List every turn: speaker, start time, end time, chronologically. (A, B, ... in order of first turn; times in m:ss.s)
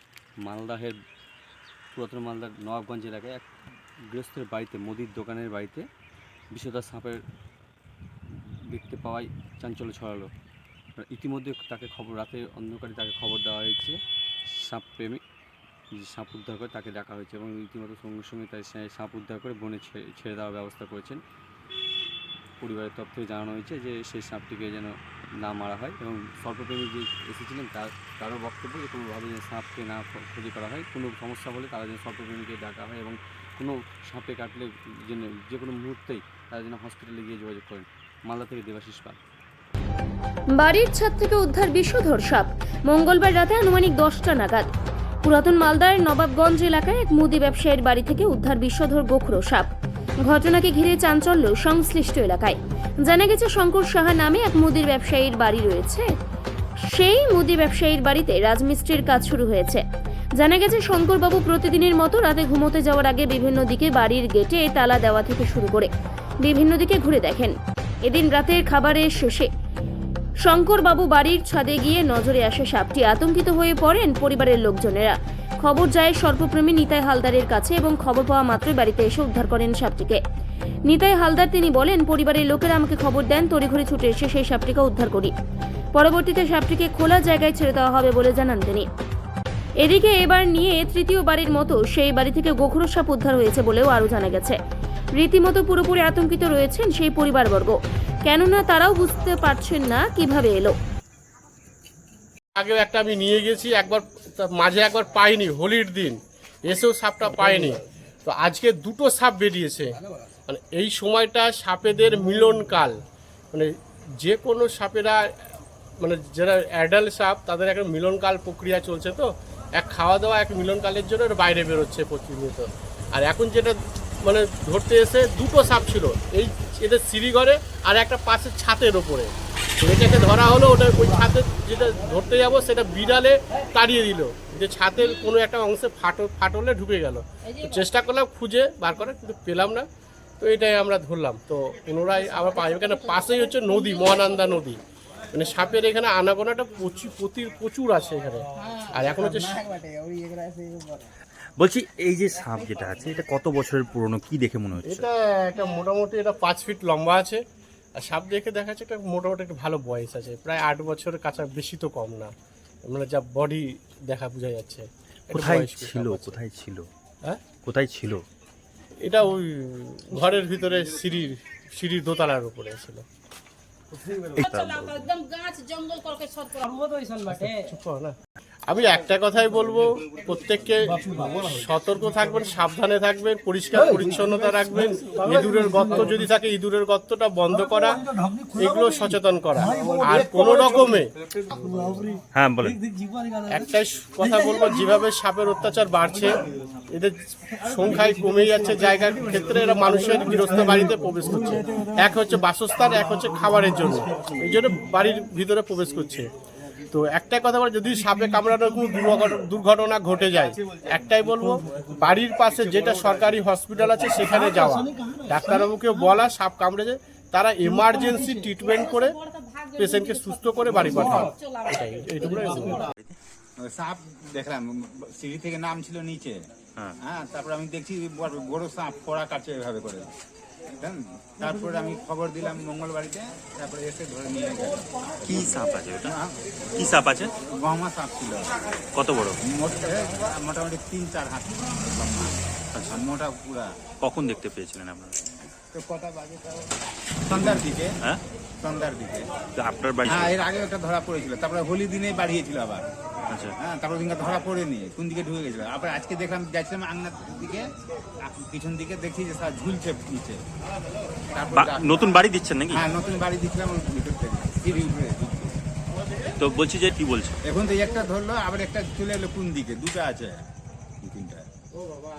0:00.4-0:01.0 A
0:02.0-0:03.5 A
0:04.1-0:05.8 A
0:06.5-0:07.2 A
0:08.7-0:10.3 A
0:11.0-0:14.0 A
0:14.6-0:15.2 A
0:16.0-0:21.2 A
0:22.6-0:39.2 A
0:40.6-0:44.7 B
0:45.2-0:49.7 B
0:50.3-0:56.1 B
0:56.9-0:59.8 B
1:00.4-1:05.9 B
1:06.4-1:07.5 B
1:08.1-1:09.5 B
1:10.4-1:20.2 B
1:20.9-1:25.3 B
1:26.0-1:28.9 B
1:29.8-1:34.6 B
1:35.2-1:40.8 B
1:42.6-1:49.9 C
1:50.5-1:53.0 C
1:53.5-1:55.4 C
1:56.0-2:19.9 C
2:20.4-2:24.8 C
2:25.3-2:29.6 C
2:31.6-2:35.0 D
2:34.8-2:37.4 C
2:38.0-2:42.3 C
2:42.8-2:46.4 C
2:45.3-2:46.9 D
2:47.6-2:48.2 D
2:49.0-2:53.0 C
2:54.4-2:55.1 D
2:54.4-2:57.2 E
2:57.3-2:58.2 C
2:58.7-3:08.0 C
3:08.5-3:11.1 C
3:12.3-3:12.8 D
3:13.5-3:16.4 C
3:16.9-3:26.3 C
3:26.9-3:39.2 C
3:38.6-3:42.7 E
3:39.8-3:42.9 C
3:43.6-3:46.4 F
3:47.0-3:50.1 F
3:50.8-3:55.5 F
3:55.2-3:56.1 D
3:56.0-3:56.3 F
3:56.8-3:57.3 D
3:57.4-3:58.5 F
3:59.0-3:59.4 D
3:59.5-4:02.4 F
4:02.8-4:03.0 D
4:02.9-4:03.7 F
4:04.0-4:05.2 D
4:05.7-4:06.4 F
4:07.3-4:07.9 F
4:07.3-4:08.2 D
4:08.6-4:09.2 F
4:09.6-4:10.4 D
4:10.1-4:12.8 F
4:13.6-4:17.7 F
4:18.3-4:20.4 F
4:21.3-4:25.6 F
4:21.5-4:22.8 D
4:26.4-4:27.4 D
4:27.4-4:30.4 F
4:31.0-4:31.5 F